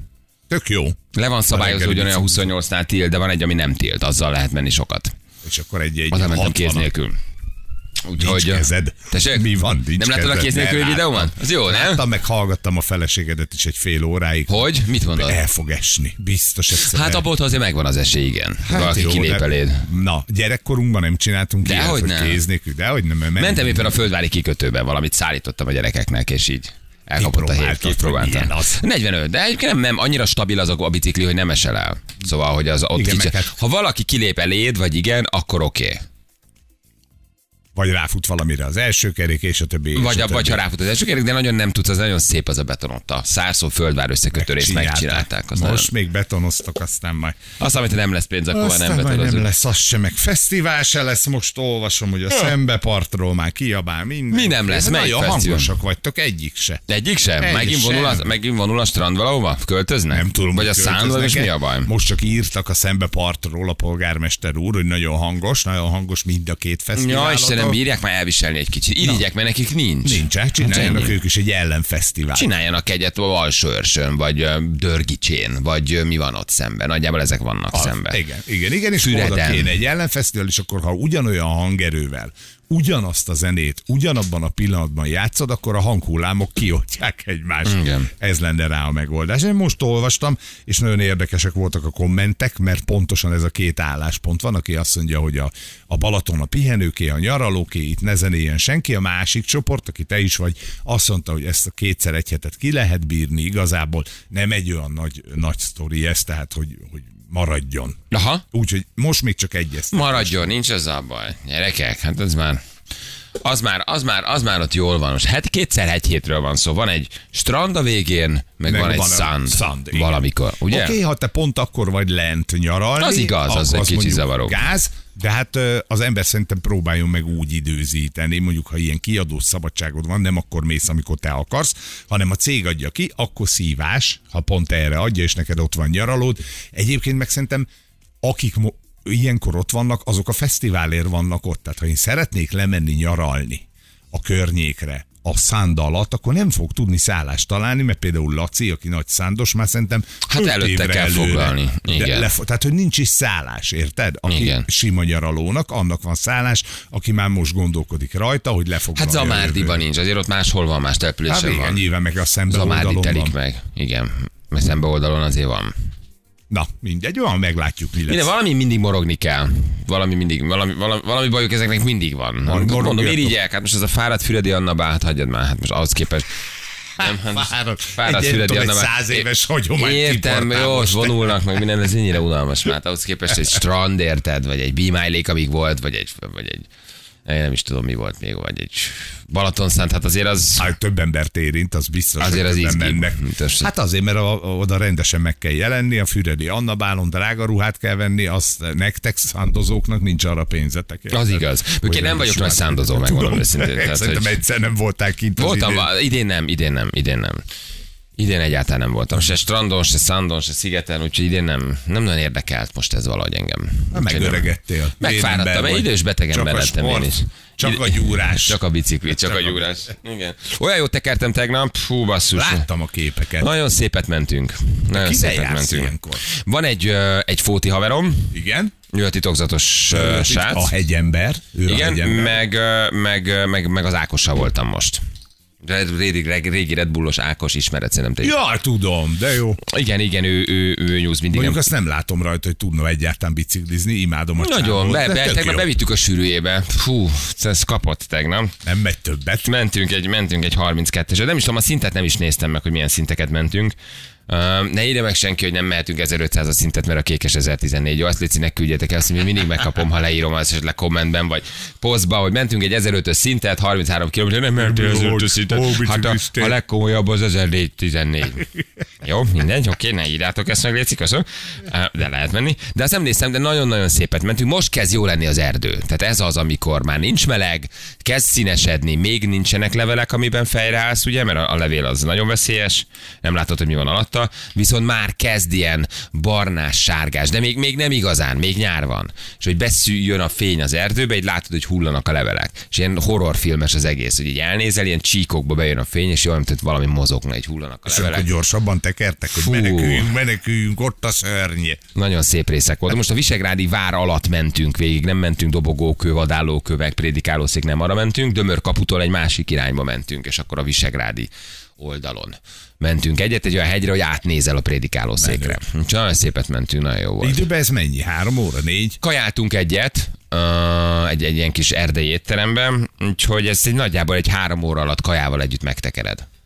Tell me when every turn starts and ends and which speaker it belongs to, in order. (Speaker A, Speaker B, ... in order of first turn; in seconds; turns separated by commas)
Speaker A: 0.5-2.5, Speaker B: 1.1-5.1, Speaker A: 5.4-6.9, Speaker B: 6.1-7.2, Speaker B: 8.0-12.0, Speaker A: 8.2-17.2, Speaker B: 14.5-15.4, Speaker B: 16.7-19.9, Speaker A: 18.6-24.0, Speaker B: 21.6-22.4, Speaker B: 23.4-36.0, Speaker A: 27.2-28.8, Speaker A: 32.9-33.5, Speaker A: 37.8-40.6, Speaker B: 39.9-45.9, Speaker A: 44.3-47.4, Speaker B: 47.6-49.5, Speaker A: 48.5-56.8, Speaker B: 54.3-55.7, Speaker B: 56.9-61.9, Speaker A: 57.4-58.3, Speaker A: 60.1-67.8, Speaker B: 67.0-71.2, Speaker A: 70.0-72.5, Speaker B: 72.3-78.2, Speaker A: 77.7-108.0, Speaker B: 79.0-79.7, Speaker B: 87.7-88.1, Speaker B: 108.1-108.4, Speaker A: 108.5-110.4, Speaker B: 109.9-112.6, Speaker B: 113.4-121.0, Speaker A: 118.7-137.7, Speaker B: 123.0-124.6, Speaker A: 138.2-159.8, Speaker B: 150.3-152.3, Speaker B: 154.3-154.7, Speaker B: 159.0-161.8, Speaker A: 161.3-163.3, Speaker B: 162.5-165.7, Speaker A: 166.5-168.3, Speaker B: 168.1-176.3, Speaker A: 172.5-173.3, Speaker B: 177.0-186.7, Speaker A: 177.0-181.4, Speaker B: 187.3-190.7, Speaker A: 190.6-205.9, Speaker B: 192.2-193.7, Speaker B: 201.1-204.3, Speaker B: 205.4-207.4, Speaker B: 208.2-214.5, Speaker A: 213.9-218.6, Speaker B: 215.0-222.7, Speaker A: 219.2-219.7, Speaker A: 222.3-223.5, Speaker B: 223.4-228.3, Speaker A: 224.9-226.2, Speaker A: 228.3-228.7, Speaker B: 228.9-230.7, Speaker A: 229.9-232.4, Speaker B: 231.7-235.0, Speaker B: 235.6-238.3, Speaker A: 238.2-239.6, Speaker B: 239.6-241.6, Speaker A: 241.3-245.7, Speaker B: 244.4-248.5, Speaker A: 248.6-249.5, Speaker B: 249.4-253.8, Speaker B: 254.3-268.5, Speaker A: 264.6-266.6, Speaker B: 269.0-298.3, Speaker A: 297.9-301.8, Speaker B: 299.4-300.1, Speaker B: 301.9-317.4, Speaker A: 315.2-315.6, Speaker A: 317.2-319.0, Speaker B: 319.0-326.3